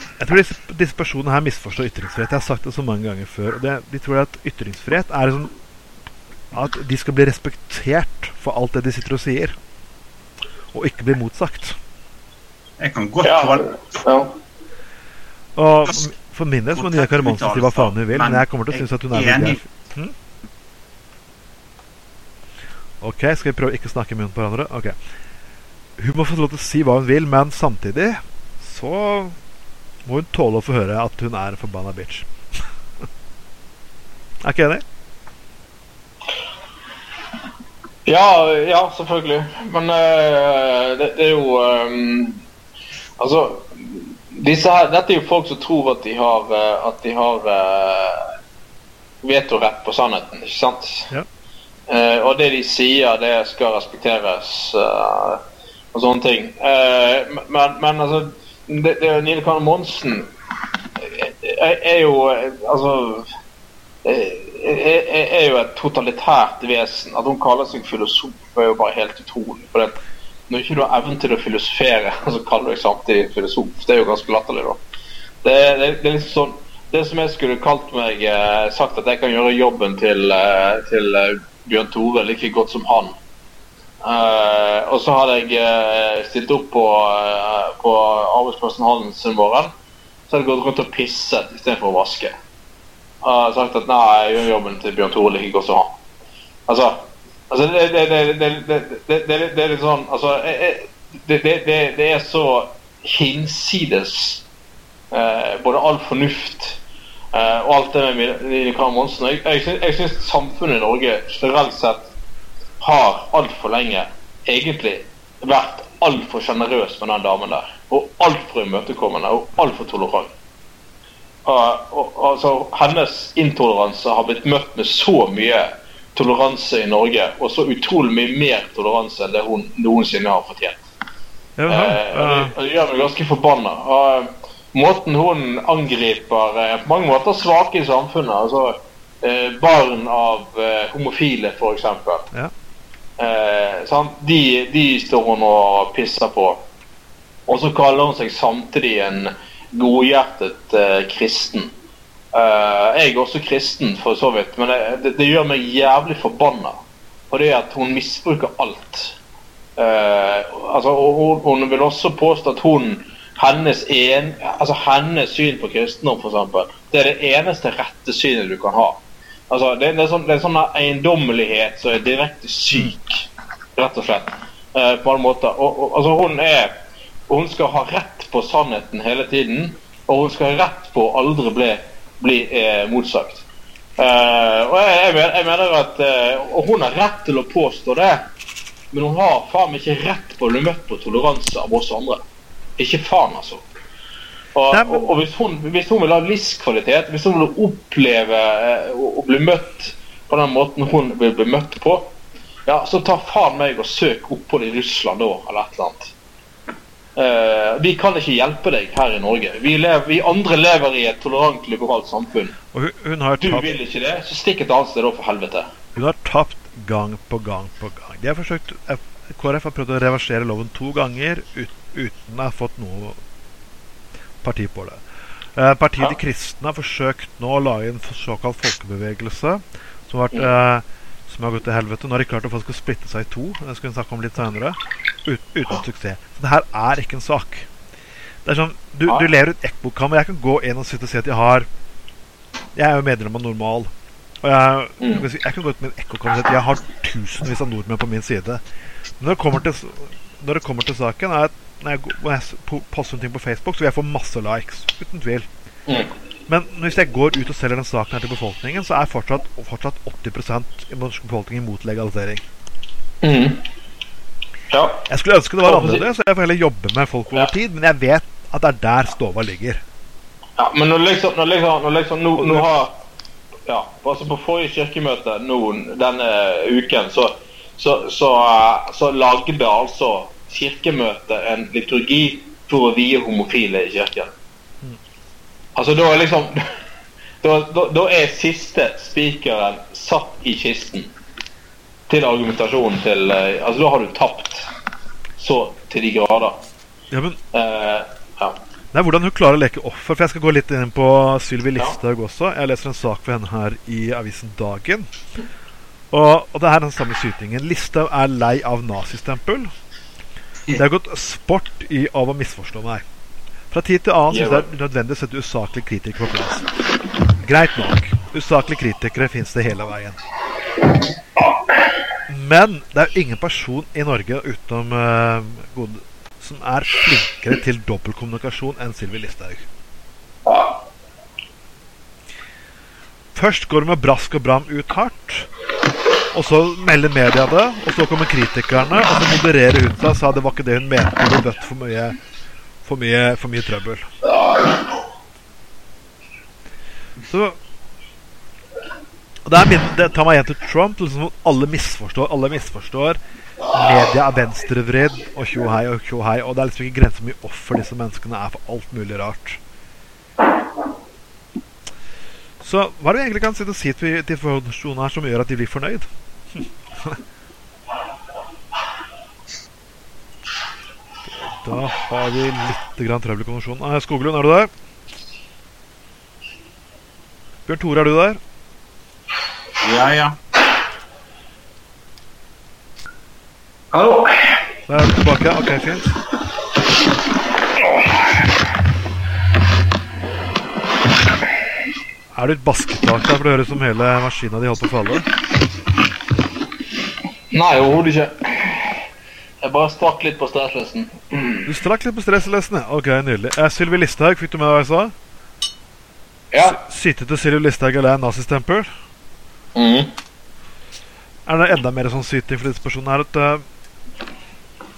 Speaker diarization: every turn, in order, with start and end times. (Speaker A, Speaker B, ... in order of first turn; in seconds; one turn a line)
Speaker A: 0.2-5.5
Speaker A: 6.5-9.6
Speaker A: 10.7-11.8
Speaker B: 12.8-13.7
Speaker C: 13.2-14.3
Speaker A: 15.6-20.1
Speaker B: 16.7-19.7
Speaker A: 23.0-24.9
Speaker A: 26.0-29.4
Speaker A: 30.1-32.3
Speaker A: 34.4-34.8
Speaker C: 38.1-42.4
Speaker C: 43.2-48.3
Speaker C: 49.2-51.1
Speaker C: 51.9-60.3
Speaker C: 61.0-63.3
Speaker C: 64.0-74.8
Speaker C: 75.4-83.2
Speaker C: 84.0-89.7
Speaker C: 90.3-92.3
Speaker C: 93.2-95.9
Speaker C: 96.7-104.4
Speaker C: 105.1-106.8
Speaker C: 107.3-112.1
Speaker C: 112.8-120.3
Speaker C: 121.5-130.8
Speaker A: 131.6-132.5
Speaker C: 131.7-142.3
Speaker C: 143.2-146.6
Speaker C: 147.5-151.7
Speaker C: 152.3-156.8
Speaker C: 157.3-159.2
Speaker C: 159.8-176.8
Speaker C: 177.3-183.5
Speaker C: 184.0-188.3
Speaker C: 188.9-192.2
Speaker C: 192.8-193.7
Speaker C: 194.6-202.1
Speaker A: 194.7-195.1
Speaker C: 202.7-206.1
Speaker C: 207.2-212.6
Speaker A: 212.7-213.8
Speaker C: 213.4-215.7
Speaker A: 216.0-223.2
Speaker A: 224.4-225.0
Speaker A: 225.6-237.7
Speaker A: 238.4-241.7
Speaker A: 242.8-243.9
Speaker A: 244.4-248.6
Speaker A: 249.2-255.5
Speaker A: 256.5-262.4
Speaker C: 263.2-263.6
Speaker C: 264.7-265.1
Speaker A: 265.1-269.8
Speaker C: 265.6-266.0
Speaker C: 270.6-272.9
Speaker A: 272.4-272.7
Speaker C: 273.7-284.3
Speaker C: 285.8-286.6
Speaker C: 287.4-291.1
Speaker C: 292.1-294.7
Speaker C: 295.4-296.6
Speaker A: 297.1-297.4
Speaker C: 297.5-298.6
Speaker A: 298.9-305.1
Speaker A: 306.1-309.7
Speaker A: 310.7-313.0
Speaker A: 313.7-316.7
Speaker C: 314.3-314.7
Speaker A: 317.4-320.2
Speaker A: 322.3-329.7
Speaker C: 330.5-330.8
Speaker A: 333.4-335.5
Speaker A: 336.3-342.2
Speaker A: 342.8-344.1
Speaker A: 347.3-347.6
Speaker A: 349.5-353.2
Speaker A: 353.7-359.6
Speaker A: 362.6-366.1
Speaker A: 366.6-367.2
Speaker A: 371.4-374.7
Speaker A: 377.7-378.4
Speaker B: 379.8-380.4
Speaker C: 383.9-384.6
Speaker A: 384.9-386.2
Speaker A: 392.4-395.3
Speaker C: 397.5-399.0
Speaker C: 399.6-401.7
Speaker A: 401.7-405.1
Speaker C: 406.5-406.8
Speaker A: 406.6-408.9
Speaker C: 409.8-410.1
Speaker A: 411.5-413.6